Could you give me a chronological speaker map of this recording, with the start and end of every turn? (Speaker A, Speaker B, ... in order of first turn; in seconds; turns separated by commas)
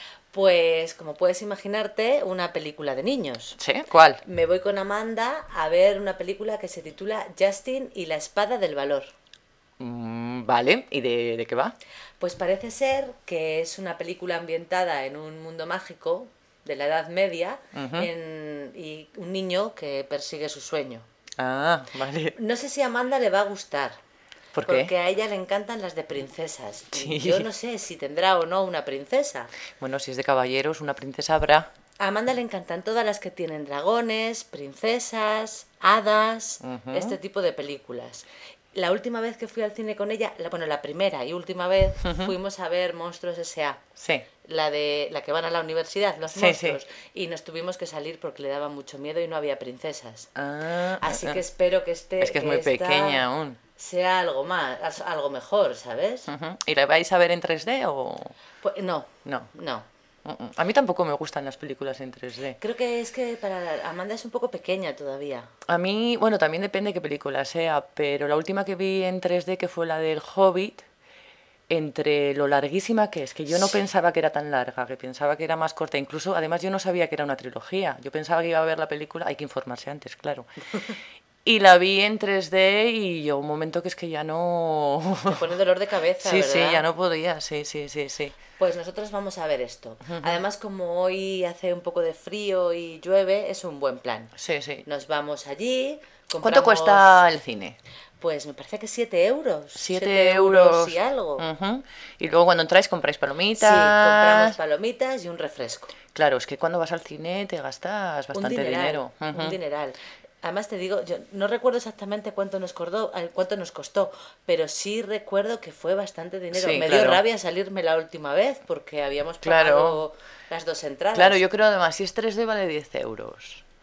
Speaker A: 0.3-3.6, Speaker B: 3.6-4.2, Speaker A: 4.2-9.1, Speaker B: 9.8-11.7, Speaker A: 12.2-21.1, Speaker B: 17.7-18.1, Speaker B: 21.4-22.3, Speaker A: 22.3-24.0, Speaker B: 24.5-24.9, Speaker A: 24.6-29.5, Speaker B: 26.9-27.4, Speaker B: 29.8-31.7, Speaker A: 32.0-43.8, Speaker B: 36.6-37.2, Speaker B: 42.0-42.3, Speaker B: 44.0-44.3, Speaker A: 44.4-50.3, Speaker B: 46.3-46.8, Speaker B: 50.4-51.4, Speaker A: 51.0-53.2, Speaker B: 52.2-53.6, Speaker A: 53.8-56.3, Speaker B: 56.3-58.3, Speaker A: 58.6-59.9, Speaker B: 59.2-59.5, Speaker B: 60.2-62.6, Speaker A: 62.6-65.5, Speaker B: 65.7-70.8, Speaker B: 71.7-80.5, Speaker B: 81.4-85.5, Speaker A: 85.2-86.8, Speaker B: 86.2-88.3, Speaker A: 88.6-94.3, Speaker B: 94.4-94.8, Speaker A: 94.8-97.2, Speaker B: 96.4-97.8, Speaker A: 98.2-101.5, Speaker B: 99.8-104.5, Speaker A: 103.5-105.9, Speaker B: 106.1-109.6, Speaker A: 108.3-121.4, Speaker B: 116.5-117.2, Speaker B: 119.4-120.0, Speaker B: 121.1-123.6